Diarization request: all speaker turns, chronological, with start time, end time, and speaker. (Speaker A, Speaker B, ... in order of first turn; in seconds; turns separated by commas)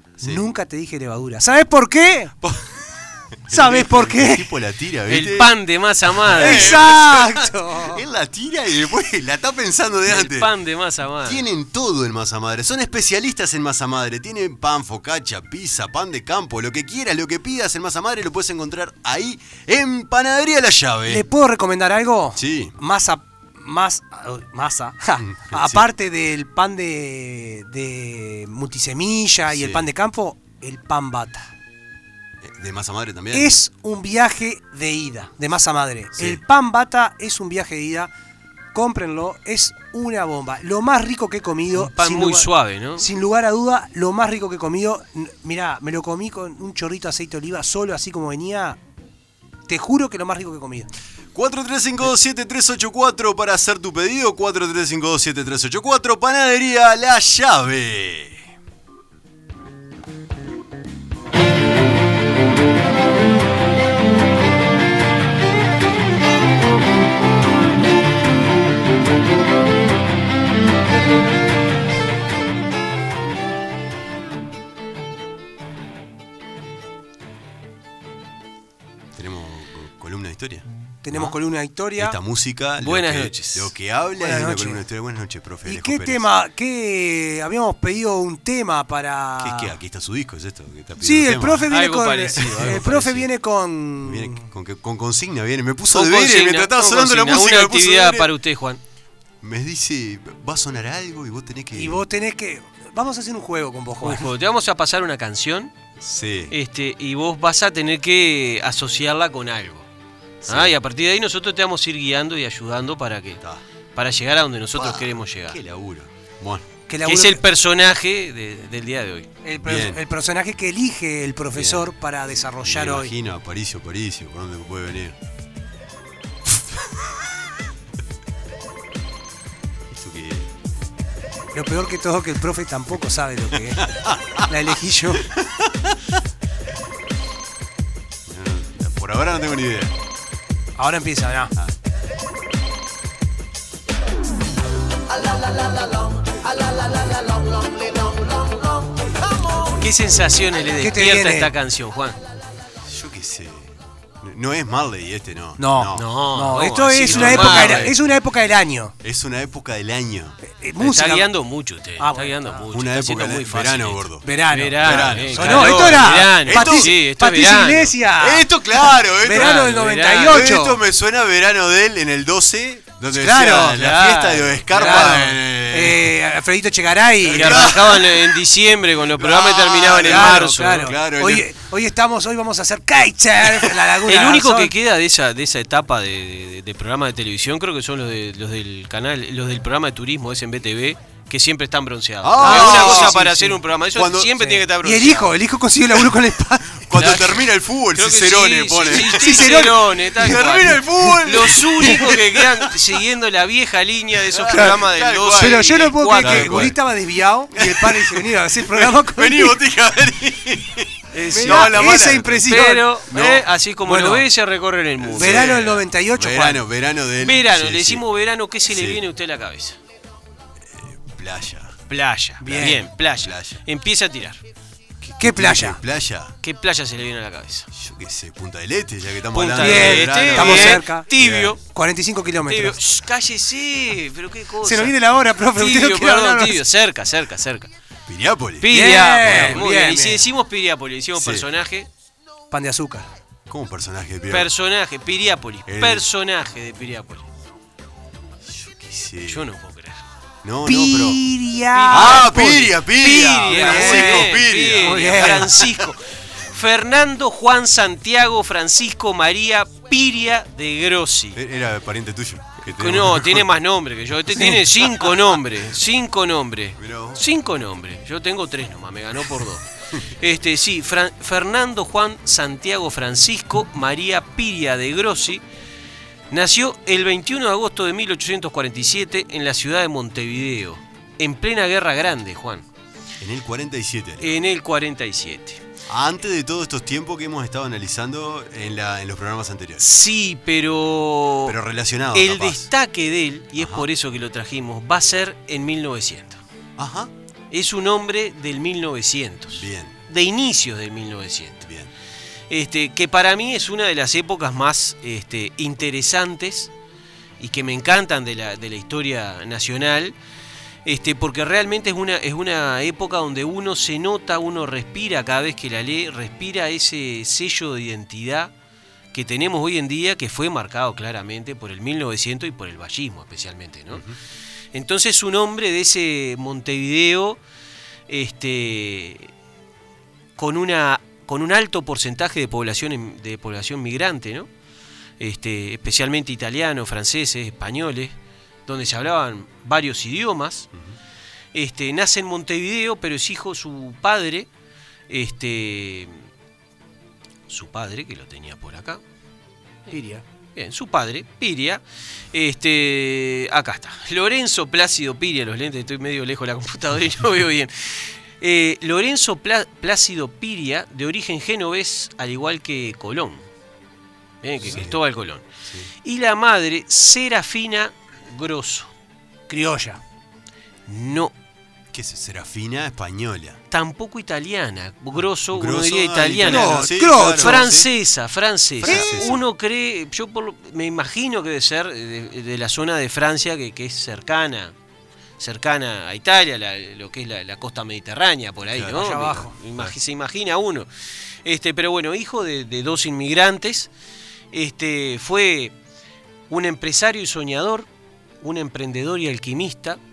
Speaker A: 0.2-0.4, Speaker B: 0.2-2.3, Speaker A: 2.4-5.6, Speaker B: 3.5-4.5, Speaker C: 5.1-6.8, Speaker A: 6.1-10.5, Speaker B: 6.3-8.0, Speaker C: 10.1-11.4, Speaker A: 11.2-21.2, Speaker B: 21.1-31.5, Speaker A: 22.4-22.7, Speaker A: 25.2-25.9, Speaker A: 29.5-29.9, Speaker A: 32.4-33.5, Speaker B: 33.3-38.1, Speaker A: 36.1-36.4, Speaker B: 38.7-48.8, Speaker C: 41.7-43.1, Speaker B: 49.7-50.9, Speaker A: 51.3-58.5, Speaker A: 79.1-81.3, Speaker B: 81.0-82.2, Speaker A: 82.0-86.3, Speaker C: 82.8-83.7, Speaker B: 84.2-84.8, Speaker B: 85.6-89.7, Speaker A: 89.4-91.7, Speaker B: 91.0-94.5, Speaker C: 91.7-93.2, Speaker A: 92.4-92.9, Speaker A: 94.0-98.3, Speaker C: 95.9-98.8, Speaker A: 99.4-102.0, Speaker B: 101.7-104.3, Speaker C: 104.0-105.7, Speaker A: 106.0-106.5, Speaker C: 106.5-109.9, Speaker A: 110.4-110.7, Speaker C: 110.4-113.4, Speaker C: 113.9-115.6, Speaker A: 114.7-116.7, Speaker B: 116.9-117.4, Speaker C: 117.0-119.3, Speaker B: 119.4-123.1, Speaker A: 119.6-120.0, Speaker A: 122.6-125.2, Speaker A: 126.6-127.2, Speaker A: 129.9-130.5, Speaker B: 131.5-133.9, Speaker A: 133.5-134.5, Speaker B: 134.5-135.3, Speaker A: 135.2-136.2, Speaker A: 138.2-139.9, Speaker B: 140.8-141.5, Speaker C: 149.8-152.2, Speaker B: 150.8-151.5, Speaker A: 152.8-156.1, Speaker B: 155.6-158.9, Speaker C: 155.9-157.9, Speaker A: 157.0-157.9, Speaker A: 159.0-160.4, Speaker B: 160.4-161.3, Speaker C: 160.8-167.9, Speaker B: 162.0-162.6, Speaker A: 162.7-166.9, Speaker B: 164.2-170.8, Speaker A: 168.2-176.1, Speaker C: 169.3-170.4, Speaker B: 173.1-173.8, Speaker C: 173.7-175.2, Speaker B: 174.7-178.0, Speaker A: 177.2-178.4, Speaker C: 177.3-180.9, Speaker A: 179.1-181.5, Speaker B: 180.0-184.7, Speaker C: 184.1-195.3, Speaker A: 192.2-193.3, Speaker B: 192.4-193.6, Speaker A: 193.9-194.4, Speaker B: 194.4-197.2, Speaker A: 196.8-202.8, Speaker C: 196.9-197.4, Speaker C: 197.9-206.7, Speaker B: 198.9-200.4, Speaker A: 204.3-206.8, Speaker B: 204.5-204.7, Speaker B: 205.3-209.6, Speaker A: 207.5-212.5, Speaker C: 211.2-215.7, Speaker B: 211.3-212.9, Speaker A: 213.1-213.5, Speaker B: 213.8-214.2, Speaker A: 215.0-218.0, Speaker B: 215.1-216.6, Speaker C: 217.2-219.8, Speaker A: 218.7-219.0, Speaker A: 220.6-221.8, Speaker C: 221.9-224.4, Speaker B: 222.4-222.8, Speaker A: 222.6-223.6, Speaker A: 225.2-226.3, Speaker B: 225.2-225.8, Speaker C: 226.4-227.7, Speaker A: 227.7-231.6, Speaker C: 229.3-231.6, Speaker B: 229.6-231.1, Speaker B: 231.7-232.8, Speaker C: 232.4-237.7, Speaker B: 234.6-236.6, Speaker A: 238.1-239.6, Speaker C: 238.6-241.9, Speaker B: 238.7-240.2, Speaker A: 241.1-241.4, Speaker B: 242.5-243.1, Speaker A: 243.5-244.5, Speaker C: 244.3-247.3, Speaker A: 245.7-246.0, Speaker A: 248.4-249.5, Speaker C: 249.2-250.0, Speaker A: 250.4-251.2, Speaker B: 250.7-252.7, Speaker C: 251.7-261.4, Speaker A: 251.9-255.9, Speaker B: 253.5-255.5, Speaker A: 261.3-263.5, Speaker C: 262.7-269.6, Speaker A: 266.8-267.2, Speaker C: 270.2-275.4, Speaker C: 276.3-282.6, Speaker A: 283.2-284.4, Speaker C: 284.2-285.6, Speaker A: 285.9-289.9, Speaker C: 289.8-291.6, Speaker A: 291.4-292.7, Speaker C: 292.1-296.4, Speaker A: 293.6-293.9, Speaker A: 296.8-297.1, Speaker C: 297.5-301.7, Speaker A: 299.5-300.0, Speaker A: 301.6-301.9, Speaker C: 302.5-306.7, Speaker C: 307.4-310.1, Speaker C: 310.8-318.5, Speaker C: 319.1-324.0, Speaker A: 323.9-324.2, Speaker C: 324.7-327.4, Speaker C: 328.1-329.3, Speaker C: 330.4-334.5, Speaker C: 335.2-338.1, Speaker C: 338.6-340.7, Speaker C: 341.5-344.5, Speaker C: 345.1-346.2, Speaker C: 347.5-349.0, Speaker B: 349.9-350.2, Speaker C: 350.6-351.8, Speaker C: 352.3-363.4, Speaker C: 364.4-365.4, Speaker A: 364.6-365.0, Speaker C: 366.0-368.9, Speaker B: 369.5-370.0, Speaker C: 370.9-371.3, Speaker A: 371.9-373.6, Speaker C: 373.7-384.7, Speaker A: 375.1-377.9, Speaker B: 376.4-377.7, Speaker A: 378.8-379.4, Speaker B: 378.8-379.4, Speaker C: 385.4-390.9, Speaker A: 388.7-389.9, Speaker B: 388.9-389.5, Speaker C: 391.4-393.9, Speaker C: 394.5-395.7, Speaker C: 396.5-397.9, Speaker C: 398.4-400.0